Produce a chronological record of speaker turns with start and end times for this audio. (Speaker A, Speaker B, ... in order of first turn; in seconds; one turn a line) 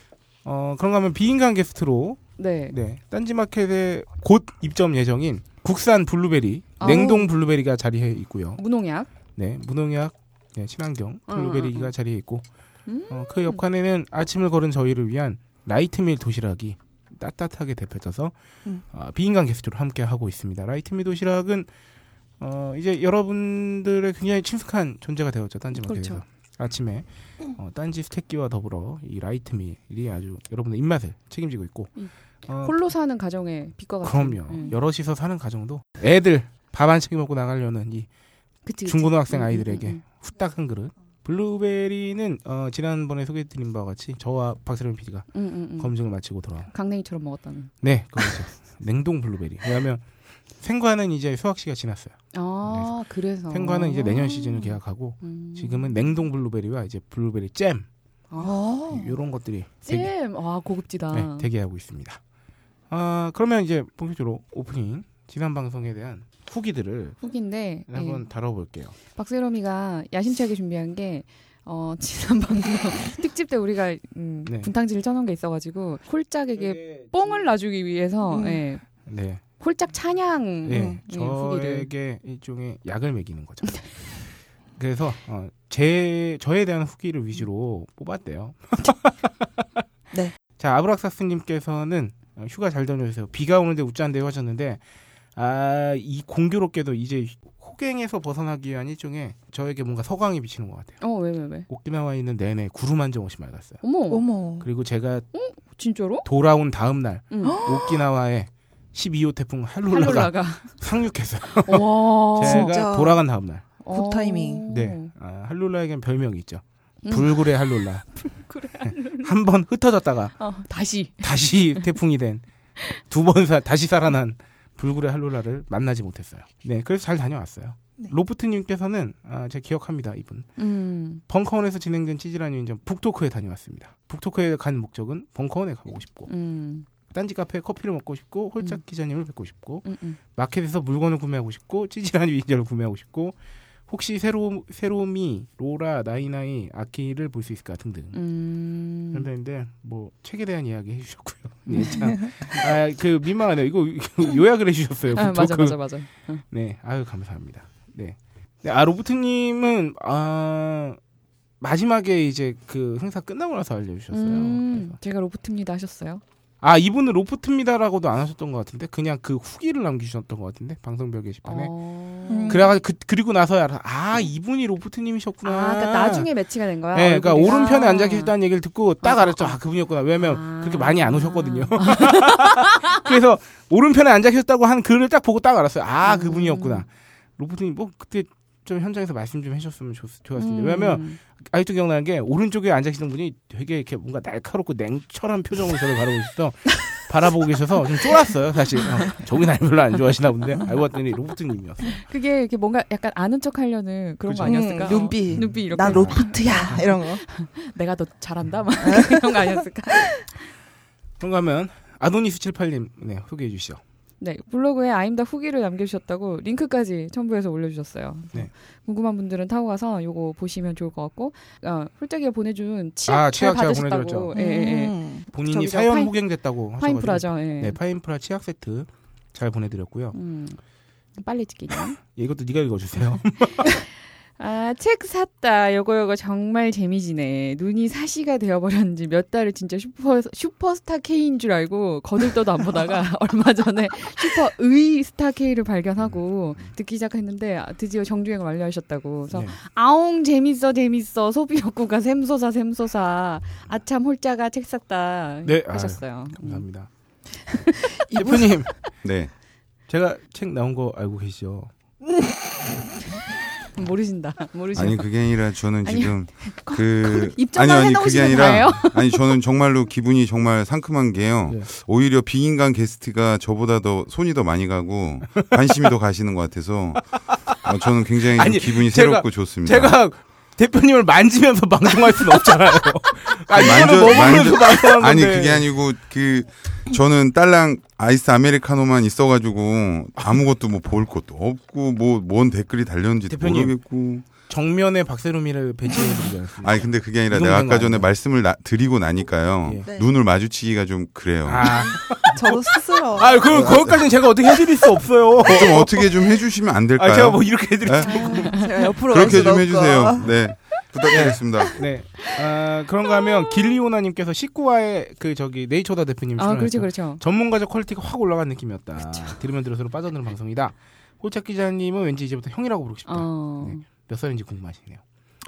Speaker A: 0.4-8.6
Speaker B: 2.4-2.8
Speaker B: 6.8-7.3
Speaker B: 8.6-9.1
Speaker A: 9.3-12.4
Speaker B: 11.3-11.9
Speaker B: 12.9-13.6
Speaker A: 13.1-18.3
Speaker A: 18.9-21.7
Speaker A: 22.4-31.9
Speaker B: 25.8-26.2
Speaker A: 32.5-32.7
Speaker B: 32.6-34.8
Speaker A: 34.0-38.1
Speaker B: 38.6-40.0
Speaker A: 38.8-46.7
Speaker B: 45.3-46.0
Speaker B: 46.7-48.4
Speaker A: 47.8-50.0
Speaker A: 50.6-52.9
Speaker B: 52.3-56.2
Speaker A: 53.5-57.9
Speaker B: 58.3-59.1
Speaker A: 58.9-60.1
Speaker B: 59.8-61.5
Speaker A: 61.1-62.2
Speaker A: 62.9-67.2
Speaker B: 67.2-68.2
Speaker A: 67.9-69.0
Speaker B: 69.1-78.8
Speaker A: 76.6-77.4
Speaker C: 78.3-78.6
Speaker A: 79.0-79.4
Speaker B: 79.6-81.9
Speaker A: 80.6-84.0
Speaker C: 80.7-81.0
Speaker A: 84.8-89.6
Speaker A: 90.6-94.8
Speaker A: 95.3-101.0
Speaker B: 101.0-101.7
Speaker A: 101.7-103.8
Speaker B: 103.8-104.3
Speaker C: 104.1-104.7
Speaker A: 104.6-105.3
Speaker B: 105.3-106.2
Speaker A: 106.2-113.6
Speaker B: 107.3-107.7
Speaker C: 107.4-108.0
Speaker B: 109.9-110.8
Speaker B: 111.6-112.8
Speaker C: 112.4-113.2
Speaker B: 113.8-115.1
Speaker C: 113.9-114.6
Speaker A: 114.7-118.1
Speaker B: 117.0-117.5
Speaker B: 118.2-119.3
Speaker A: 118.8-120.3
Speaker B: 120.4-122.0
Speaker A: 121.2-122.4
Speaker A: 122.9-130.5
Speaker B: 130.6-131.2
Speaker A: 131.3-136.3
Speaker B: 136.3-136.8
Speaker A: 137.1-143.3
Speaker B: 139.8-140.2
Speaker A: 143.9-148.2
Speaker B: 148.1-149.2
Speaker A: 149.1-155.8
Speaker B: 151.7-152.1
Speaker B: 155.1-156.4
Speaker A: 156.5-161.0
Speaker A: 161.6-165.0
Speaker B: 164.1-166.2
Speaker A: 166.6-171.7
Speaker B: 171.4-172.7
Speaker C: 172.3-172.7
Speaker A: 172.4-176.3
Speaker B: 175.4-178.3
Speaker A: 176.9-202.0
Speaker B: 179.0-179.6
Speaker B: 180.2-183.0
Speaker B: 186.0-186.8
Speaker B: 190.4-191.2
Speaker B: 202.1-210.4
Speaker A: 204.3-206.2
Speaker C: 204.4-207.2
Speaker C: 208.8-210.0
Speaker A: 211.2-213.8
Speaker B: 214.2-225.0
Speaker A: 223.1-224.3
Speaker C: 224.3-226.1
Speaker A: 225.3-230.2
Speaker B: 225.8-226.1
Speaker B: 226.8-227.8
Speaker B: 230.1-230.6
Speaker B: 231.2-232.0
Speaker A: 232.1-233.7
Speaker B: 233.6-233.9
Speaker B: 234.4-256.6
Speaker A: 246.0-246.7
Speaker A: 249.3-249.6
Speaker A: 255.4-256.9
Speaker B: 257.4-258.5
Speaker A: 258.1-258.7
Speaker D: 259.0-259.3
Speaker A: 259.9-261.7
Speaker B: 263.7-265.1
Speaker D: 264.7-280.0
Speaker B: 265.8-269.2
Speaker A: 277.3-277.7
Speaker A: 278.3-285.6
Speaker D: 283.5-294.3
Speaker A: 293.3-293.8
Speaker A: 294.5-298.1
Speaker D: 296.6-302.0
Speaker A: 301.4-302.6
Speaker C: 302.3-303.4
Speaker A: 303.1-306.3
Speaker D: 303.5-304.1
Speaker D: 305.4-308.1
Speaker A: 306.9-308.6
Speaker C: 308.0-310.2
Speaker B: 308.1-308.9
Speaker D: 309.1-311.8
Speaker A: 309.1-309.6
Speaker A: 310.2-310.5
Speaker A: 311.0-325.0
Speaker B: 316.4-317.2
Speaker B: 319.1-319.4
Speaker B: 323.1-323.8